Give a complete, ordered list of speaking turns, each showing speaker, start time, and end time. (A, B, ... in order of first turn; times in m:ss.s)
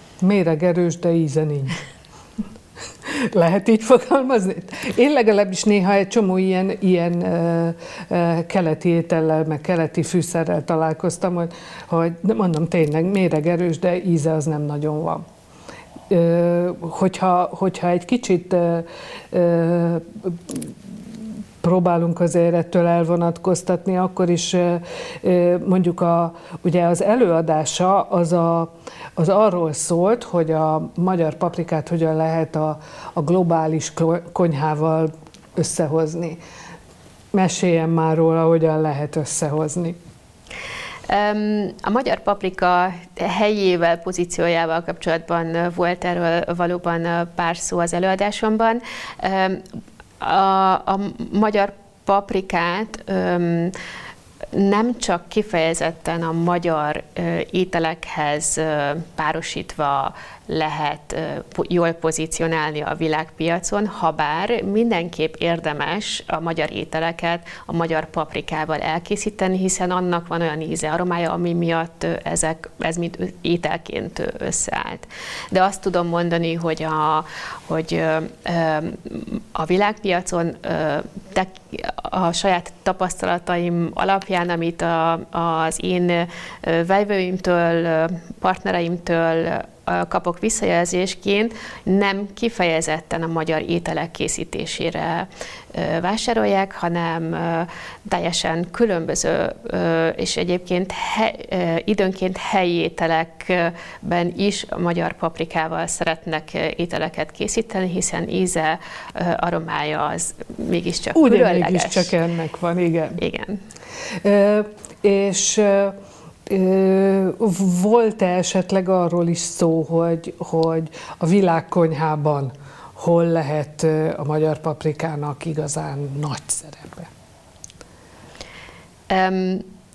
0:00.2-0:01.8 A
0:03.0-0:15.2 A
0:16.1-0:20.7 A
0:21.6-0:36.4 A
0:37.3-0:40.0 A
0:41.1-0:49.6 B
0:50.2-0:53.7 B
0:54.5-1:52.1 B
1:51.1-1:53.2 A
1:53.2-1:53.6 B
1:54.2-1:55.9 A
1:56.4-2:07.1 A
2:09.1-2:09.6 B